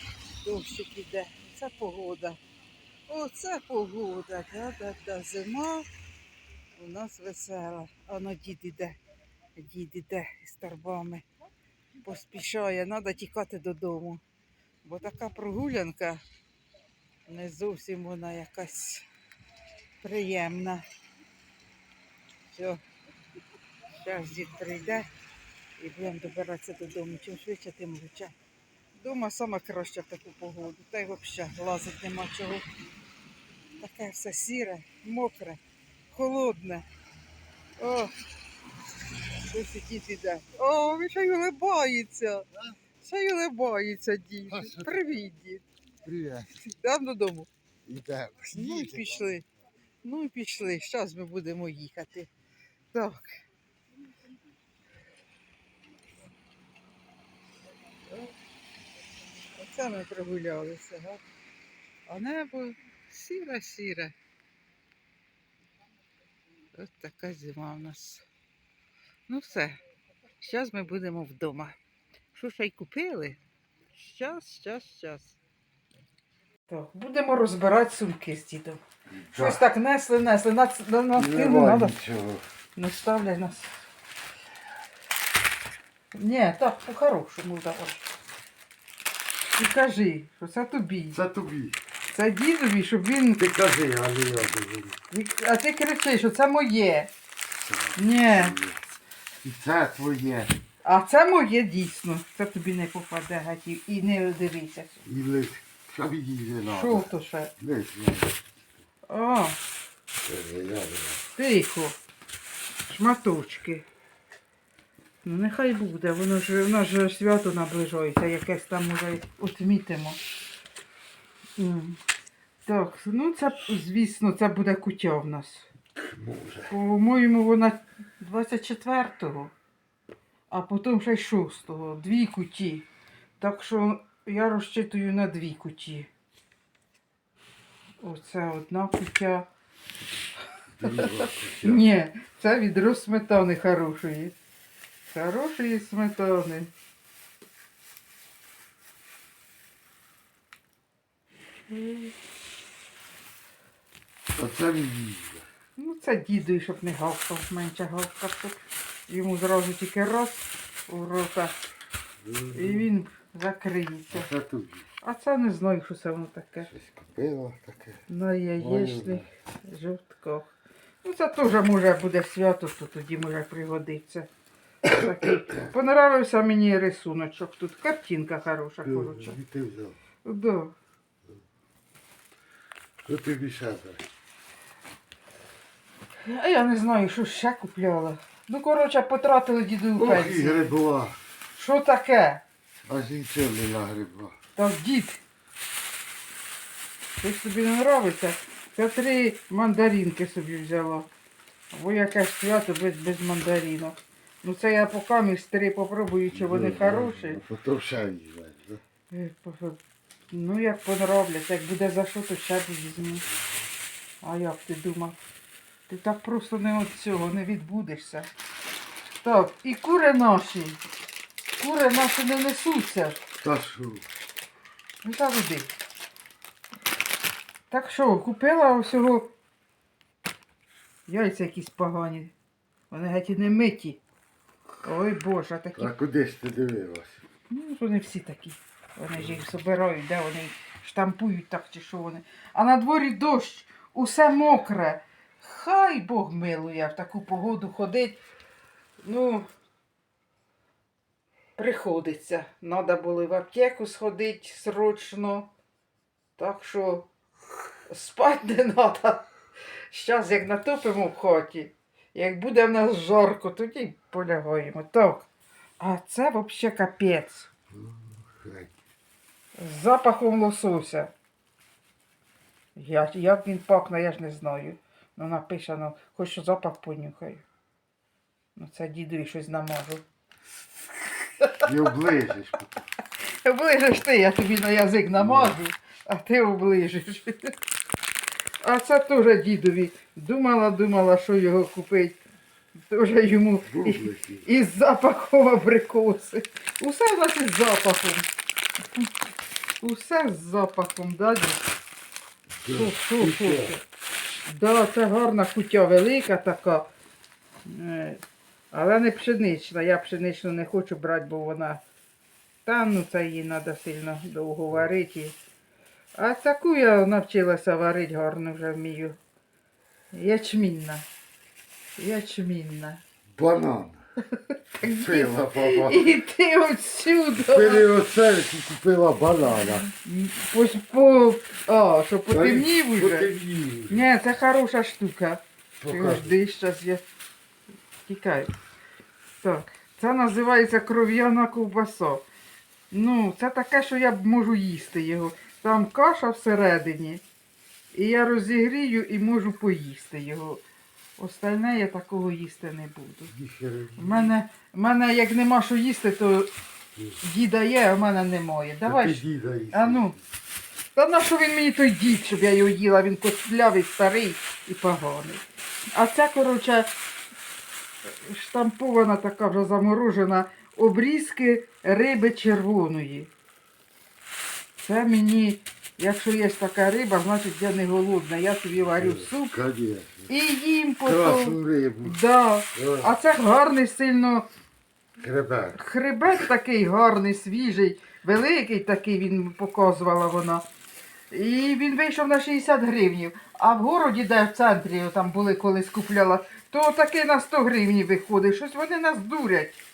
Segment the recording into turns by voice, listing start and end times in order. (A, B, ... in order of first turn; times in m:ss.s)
0:00.4-0:02.4 A
0:03.1-0:05.8 A
0:06.8-0:09.0 A
0:09.5-0:11.2 A
0:12.0-0:14.2 A
0:14.8-0:16.2 A
0:17.3-0:19.0 A
0:20.0-0:20.8 A
0:22.5-0:22.8 A
0:23.9-0:25.1 A
0:25.8-0:28.3 A
0:29.0-0:32.6 A
0:33.8-0:35.6 A
0:36.1-0:36.8 A
0:37.8-0:38.1 A
0:39.4-0:42.4 A
0:43.0-0:45.6 A
0:44.5-0:45.0 B
0:46.0-0:46.6 B
0:46.6-0:47.5 A
0:47.8-0:49.3 B
0:48.5-0:49.4 A
0:50.0-0:52.3 A
0:52.9-0:53.3 A
0:59.5-1:01.2 A
1:02.1-1:04.1 A
1:06.7-1:08.2 A
1:09.3-1:09.8 A
1:10.4-1:11.8 A
1:12.3-1:13.4 A
1:13.9-1:15.4 A
1:16.7-1:18.8 A
1:19.1-1:19.6 B
1:19.3-1:21.9 A
1:21.2-1:22.4 B
1:22.8-1:23.8 A
1:26.1-1:28.0 A
1:29.5-1:31.2 A
1:31.1-1:31.8 B
1:32.1-1:33.4 A
1:33.4-1:35.0 B
1:35.1-1:37.1 A
1:37.5-1:40.5 B
1:38.0-1:38.6 A
1:40.8-1:45.0 A
1:45.0-1:48.4 B
1:46.7-1:47.5 A
1:49.1-1:49.6 A
1:50.2-1:51.2 B
1:51.4-1:52.0 A
1:52.9-1:53.8 A
1:55.2-2:00.2 A
2:01.6-2:02.0 A
2:02.6-2:05.7 A
2:06.0-2:06.7 B
2:06.7-2:09.5 A
2:10.5-2:12.8 A
2:13.4-2:16.1 A
2:18.0-2:19.5 A
2:20.8-2:21.8 B
2:20.8-2:24.3 A
2:25.1-2:26.7 A
2:31.7-2:32.1 A
2:34.3-2:35.4 B
2:35.8-2:41.5 A
2:42.2-2:42.9 B
2:42.5-2:44.3 A
2:44.1-2:44.8 B
2:45.0-2:46.7 A
2:46.7-2:48.0 B
2:48.1-2:50.5 A
2:48.6-2:49.3 B
2:51.0-2:54.3 A
2:54.8-2:59.4 A
2:58.8-3:00.0 B
3:00.2-3:00.7 A
3:03.0-3:04.0 B
3:06.2-3:10.7 A
3:10.0-3:11.2 B
3:11.5-3:12.4 A
3:12.8-3:14.4 B
3:14.6-3:15.2 A
3:17.2-3:21.1 A
3:21.7-3:27.4 A
3:26.3-3:28.8 B
3:29.1-3:29.8 A
3:30.3-3:33.2 A
3:34.2-3:35.2 A
3:35.9-3:38.3 A
3:39.2-3:40.8 A
3:41.6-3:43.2 A
3:43.4-3:44.0 B
3:45.0-3:45.7 A
3:47.7-3:49.3 A
3:51.1-3:52.3 A
3:52.9-3:54.0 A
3:54.8-3:55.9 A
3:55.7-3:57.2 B
3:57.5-4:08.2 A
4:09.0-4:09.5 A
4:11.6-4:15.5 A
4:16.4-4:17.1 A
4:17.9-4:19.3 A
4:19.9-4:25.3 A
4:25.8-4:27.5 A
4:27.7-4:28.7 B
4:29.6-4:31.1 A
4:32.8-4:37.4 A
4:38.6-4:40.0 A
4:41.4-4:41.7 A
4:41.6-4:42.7 B
4:43.4-4:47.6 A
4:45.1-4:45.6 B
4:48.6-4:52.2 A
4:52.9-4:58.3 A
4:53.6-4:54.5 B
4:59.8-5:01.7 A
5:02.6-5:03.8 B
5:02.7-5:03.8 A
5:04.4-5:06.9 A
5:07.6-5:08.2 A
5:08.7-5:11.8 A
5:12.6-5:15.4 A
5:16.2-5:19.2 A
5:20.1-5:21.1 A
5:22.0-5:23.0 A
5:23.3-5:24.0 B
5:24.3-5:27.9 A
5:24.8-5:26.1 B
5:27.4-5:29.9 B
5:30.0-5:33.3 A
5:32.3-5:34.1 B
5:33.9-5:37.0 A
5:35.8-5:36.4 B
5:38.0-5:38.5 A
5:39.4-5:42.2 A
5:42.9-5:47.2 A
5:47.9-5:50.6 A
5:51.2-5:53.3 A
5:53.2-5:54.3 B
5:53.9-5:56.5 A
5:57.2-6:00.2 A
5:58.8-6:00.2 B
6:00.9-6:05.4 A
6:05.9-6:06.9 A
6:08.0-6:13.3 A
6:14.8-6:19.5 A
6:18.8-6:20.3 B
6:20.3-6:24.4 A
6:21.0-6:22.2 B
6:22.7-6:23.1 B
6:25.2-6:25.8 B
6:25.7-6:30.6 A
6:31.3-6:39.8 A